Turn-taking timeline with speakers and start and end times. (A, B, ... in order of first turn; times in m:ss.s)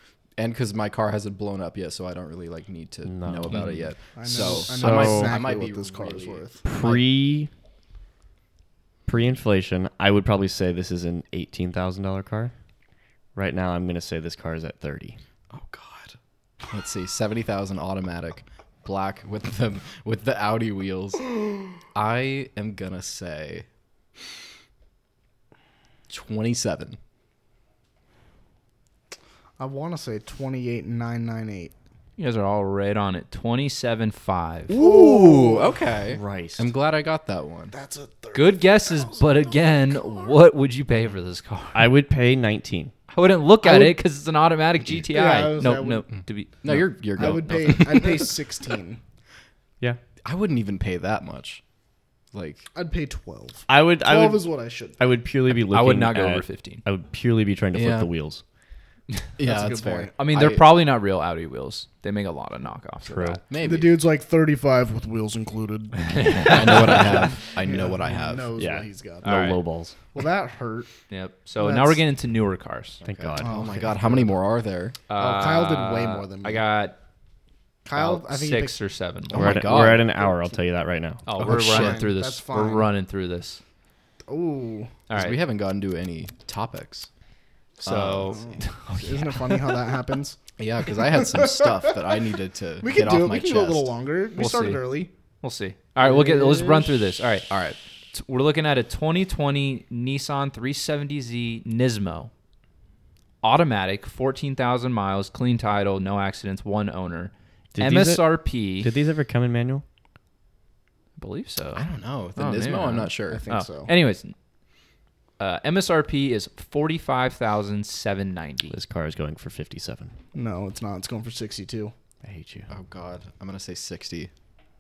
0:00.4-0:07.0 A
0:03.0-0:03.8 B
0:03.5-0:03.8 C
0:04.2-0:06.6 D
0:04.4-0:05.4 B
0:06.7-0:07.5 B
0:09.1-0:12.5 B
0:13.4-0:15.2 B
0:15.5-0:16.2 A
0:16.7-0:23.7 A
0:26.1-0:27.0 A
0:29.6-0:31.7 D
0:32.2-0:34.7 C
0:34.7-0:35.8 D
0:34.7-0:37.7 A
0:36.1-0:36.7 B
0:37.7-0:39.4 D
0:38.3-0:41.9 C
0:41.7-0:42.9 B
0:43.1-0:47.3 C
0:43.6-0:44.0 D
0:45.1-0:46.1 D
0:46.6-0:48.4 A
0:47.2-0:49.0 D
0:50.2-0:51.6 A
0:52.3-0:52.7 A
0:52.7-0:55.0 D
0:53.7-0:58.4 B
0:55.7-0:56.8 C
0:57.7-0:58.1 A
0:59.4-1:00.7 A
0:59.4-1:00.1 D
1:00.2-1:03.4 C
1:03.0-1:03.4 B
1:03.5-1:04.0 A
1:03.6-1:09.3 D
1:06.0-1:07.4 C
1:06.4-1:08.5 A
1:08.6-1:10.0 B
1:09.2-1:09.6 C
1:10.1-1:10.9 D
1:11.1-1:13.0 C
1:11.6-1:12.0 D
1:13.0-1:14.3 B
1:13.0-1:15.0 A
1:13.4-1:14.0 D
1:15.1-1:17.0 C
1:15.2-1:16.6 D
1:17.8-1:18.8 D
1:17.9-1:19.7 C
1:19.3-1:20.1 A
1:19.3-1:21.2 B
1:21.3-1:23.6 C
1:21.4-1:22.1 A
1:21.4-1:22.9 D
1:24.3-1:24.9 D
1:25.1-1:25.4 C
1:25.1-1:27.1 A
1:27.8-1:29.6 C
1:27.8-1:28.5 A
1:28.3-1:30.4 D
1:30.6-1:33.9 A
1:31.1-1:32.0 D
1:32.8-1:35.1 D
1:34.4-1:37.5 C
1:36.0-1:37.0 D
1:37.5-1:37.8 A
1:38.1-1:42.3 C
1:43.4-1:48.9 C
1:47.8-1:49.8 B
1:51.2-1:54.4 C
1:51.8-1:53.4 A
1:53.3-1:53.9 D
1:55.4-1:58.8 C
1:58.7-2:00.1 B
2:00.3-2:01.9 D
2:02.2-2:02.7 B
2:02.7-2:04.3 A